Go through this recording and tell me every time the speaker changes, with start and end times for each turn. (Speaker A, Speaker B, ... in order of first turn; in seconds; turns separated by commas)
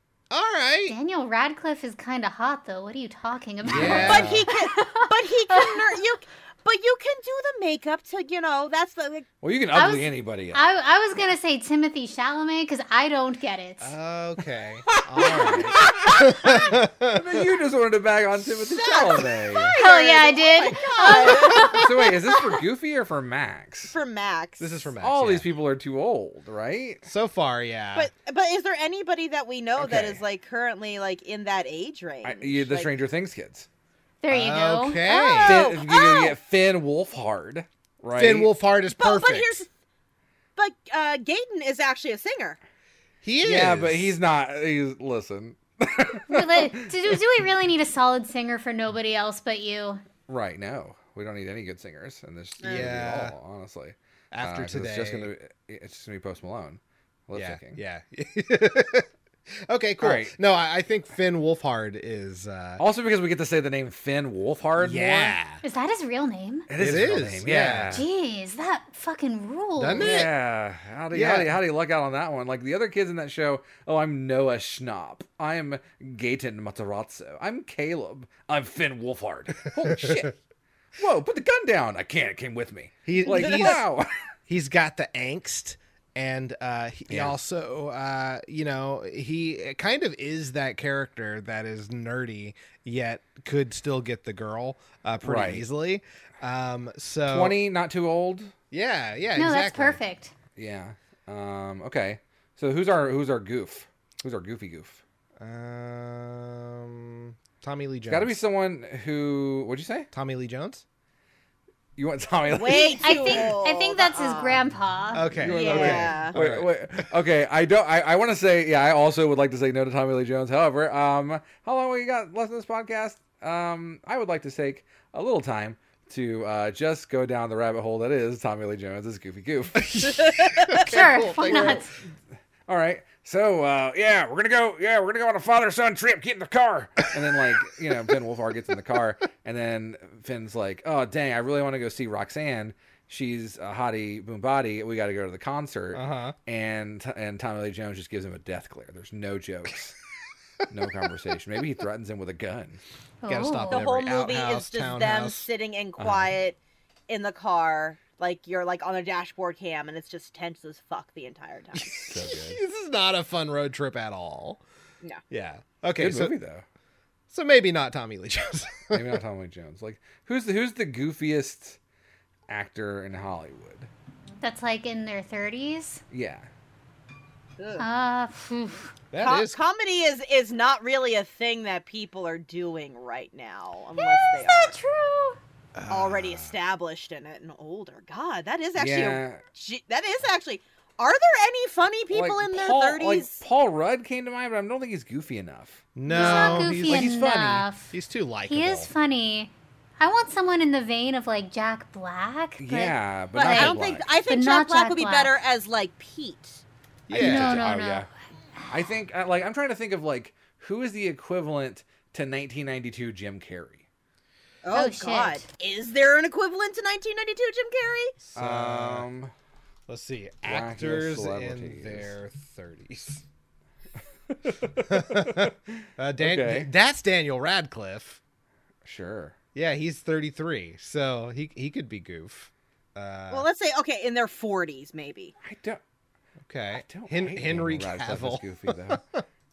Speaker A: 0.3-0.9, Speaker B: 0.9-6.0, Speaker C: 3.6-4.4, Speaker A: 3.6-4.5, Speaker D: 3.8-9.2, Speaker C: 9.4-10.6, Speaker B: 9.7-13.9, Speaker A: 13.8-17.4, Speaker C: 14.9-19.8, Speaker D: 18.6-22.1, Speaker B: 19.7-21.9, Speaker C: 21.6-23.9, Speaker D: 23.9-24.9, Speaker A: 24.6-25.4, Speaker C: 25.0-27.1, Speaker A: 27.1-28.1, Speaker D: 27.9-32.9, Speaker C: 29.8-30.1, Speaker A: 29.8-30.2, Speaker C: 32.2-33.7, Speaker B: 34.2-35.4, Speaker A: 34.3-35.7, Speaker D: 35.3-36.3, Speaker C: 35.4-38.5, Speaker A: 38.1-39.6, Speaker D: 38.9-39.7, Speaker D: 40.5-42.6, Speaker A: 43.2-44.1, Speaker C: 43.4-47.2, Speaker B: 46.3-50.0, Speaker C: 50.3-57.8, Speaker D: 52.6-52.9, Speaker A: 52.6-53.3, Speaker A: 54.3-55.3, Speaker A: 57.3-62.8, Speaker C: 60.0-60.3, Speaker C: 62.8-65.4, Speaker A: 64.8-65.6, Speaker B: 65.6-66.7, Speaker C: 66.7-68.1, Speaker A: 66.8-68.0, Speaker B: 67.9-70.2, Speaker A: 69.8-70.3, Speaker C: 70.0-80.3, Speaker A: 71.1-71.5, Speaker A: 79.8-80.2, Speaker C: 81.0-84.1, Speaker A: 83.0-83.8, Speaker A: 84.5-97.5, Speaker C: 87.1-87.4, Speaker C: 95.2-95.6, Speaker C: 97.3-98.5, Speaker A: 98.7-100.0, Speaker B: 99.3-100.3, Speaker C: 100.5-105.0, Speaker A: 105.4-108.4, Speaker C: 108.1-110.1, Speaker A: 110.1-110.8, Speaker C: 112.0-113.5, Speaker D: 112.5-114.6, Speaker B: 113.0-116.0, Speaker A: 115.1-116.7, Speaker C: 115.4-130.1, Speaker D: 115.5-116.3, Speaker A: 129.8-131.9, Speaker D: 130.1-130.8, Speaker B: 130.8-131.9, Speaker C: 132.7-149.9, Speaker A: 145.9-146.3, Speaker C: 150.7-152.8, Speaker B: 153.2-153.8, Speaker A: 153.2-155.5, Speaker D: 153.7-156.6, Speaker C: 156.0-156.3, Speaker D: 157.1-162.0, Speaker A: 161.7-164.6, Speaker C: 161.9-162.6, Speaker A: 165.3-166.3, Speaker C: 166.0-166.6, Speaker A: 167.3-169.2, Speaker C: 168.9-171.8, Speaker C: 172.5-173.9, Speaker B: 174.4-176.0, Speaker C: 176.1-176.5, Speaker D: 177.6-177.8, Speaker B: 177.8-178.9, Speaker A: 179.1-179.6, Speaker D: 179.2-184.7, Speaker B: 184.0-185.4, Speaker A: 185.8-186.5, Speaker D: 185.9-193.4, Speaker C: 188.7-189.4, Speaker C: 192.1-195.8, Speaker A: 195.9-198.9, Speaker B: 196.1-197.9, Speaker D: 196.1-196.7, Speaker C: 196.7-197.6, Speaker B: 198.5-205.4, Speaker C: 202.6-204.1, Speaker D: 203.3-206.6, Speaker A: 207.1-207.7, Speaker C: 207.1-208.1, Speaker B: 207.1-208.1, Speaker C: 208.7-213.8, Speaker D: 214.6-218.2, Speaker B: 214.7-215.4, Speaker A: 218.2-219.1, Speaker C: 218.3-219.3, Speaker A: 219.9-223.2, Speaker C: 220.4-222.1, Speaker C: 224.3-225.5, Speaker A: 224.9-228.2, Speaker C: 226.2-226.7, Speaker C: 228.8-229.3, Speaker A: 229.5-233.5, Speaker D: 233.3-235.3, Speaker C: 235.4-235.8, Speaker A: 236.5-239.2, Speaker C: 236.7-239.0